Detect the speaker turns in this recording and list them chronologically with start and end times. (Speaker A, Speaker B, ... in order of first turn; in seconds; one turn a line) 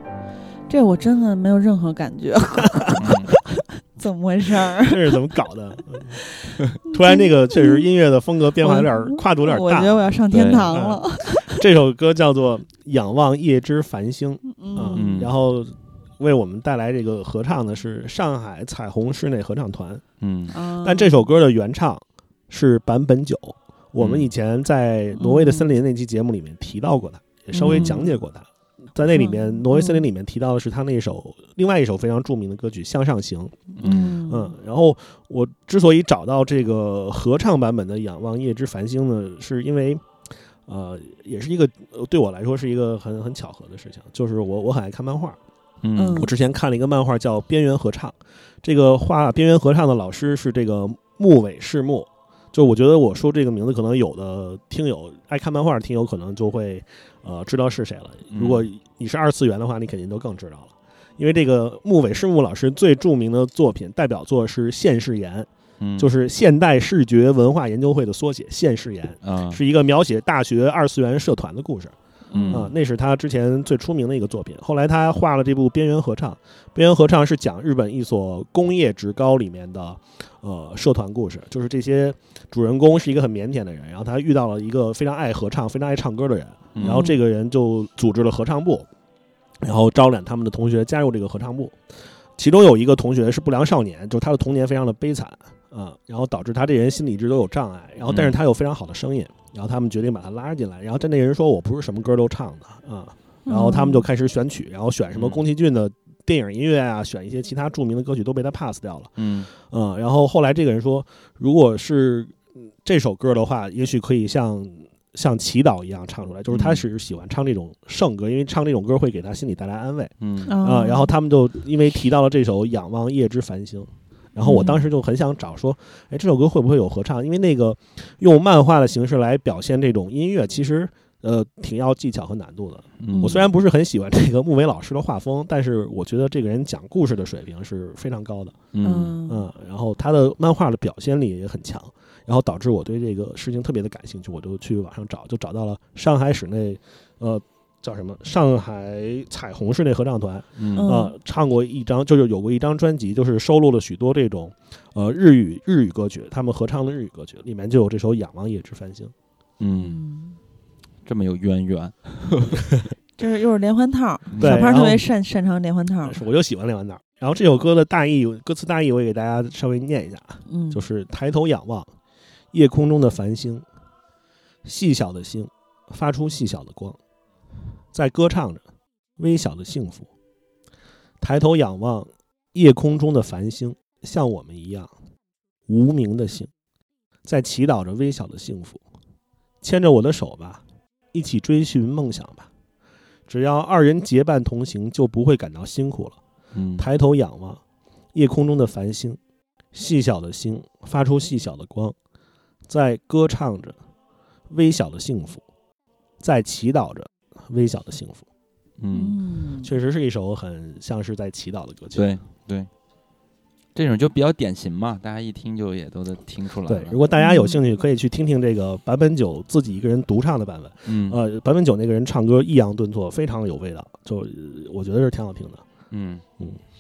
Speaker A: 0.7-5.3
Speaker B: 3.0-3.3
Speaker C: 4.8-6.2
Speaker A: 6.2-7.8
Speaker C: 6.8-10.1
Speaker A: 8.6-11.6
Speaker B: 10.3-10.8
Speaker C: 10.7-20.0
Speaker A: 14.4-15.1
Speaker B: 14.9-15.3
Speaker B: 20.2-20.5
Speaker A: 20.5-21.3
Speaker C: 20.8-33.7
Speaker B: 24.0-24.3
Speaker A: 25.2-25.7
Speaker A: 27.5-28.2
Speaker B: 27.6-27.9
Speaker A: 29.1-30.1
Speaker B: 33.8-34.2
Speaker A: 33.8-34.5
Speaker C: 34.2-40.1
Speaker C: 40.7-45.4
Speaker B: 45.8-46.2
Speaker A: 46.0-46.3
Speaker C: 46.1-72.0
Speaker B: 58.3-58.7
Speaker B: 65.8-66.1
Speaker B: 69.2-69.6
Speaker A: 72.3-72.7
Speaker B: 72.3-72.7
Speaker C: 72.5-88.9
Speaker B: 86.7-87.0
Speaker A: 86.8-87.2
Speaker C: 89.6-91.8
Speaker C: 92.4-138.6
Speaker B: 98.1-98.4
Speaker A: 103.5-104.1
Speaker B: 105.1-105.4
Speaker B: 109.2-109.5
Speaker B: 116.5-116.8
Speaker B: 120.2-120.5
Speaker A: 120.5-121.1
Speaker A: 124.4-124.8
Speaker B: 133.0-133.4
Speaker A: 133.1-133.4
Speaker B: 138.7-139.2
Speaker A: 138.8-139.4
Speaker C: 139.3-159.1
Speaker B: 150.6-150.9
Speaker A: 150.8-151.1
Speaker B: 159.6-160.0
Speaker A: 159.8-160.4
Speaker B: 161.1-162.6
Speaker A: 163.2-166.2
Speaker B: 164.3-164.7
Speaker C: 164.4-165.1
Speaker C: 166.0-171.9
Speaker A: 170.5-170.8
Speaker C: 172.5-173.7
Speaker C: 174.7-177.0
Speaker C: 177.9-178.6
Speaker C: 179.2-180.1
Speaker C: 181.2-184.9
Speaker C: 185.7-186.5
Speaker C: 187.2-188.8
Speaker C: 189.6-192.5
Speaker C: 193.3-196.2
Speaker B: 196.5-196.9
Speaker C: 196.8-197.6
Speaker C: 198.2-199.2
Speaker C: 199.7-201.9
Speaker C: 202.7-203.8
Speaker C: 204.5-205.4
Speaker C: 206.2-208.2
Speaker B: 208.8-209.2
Speaker A: 208.9-209.7
Speaker C: 209.6-212.1
Speaker B: 211.9-212.7
Speaker B: 213.7-217.0
Speaker C: 216.7-225.7
Speaker A: 217.2-217.6
Speaker B: 220.9-221.2
Speaker B: 225.9-226.2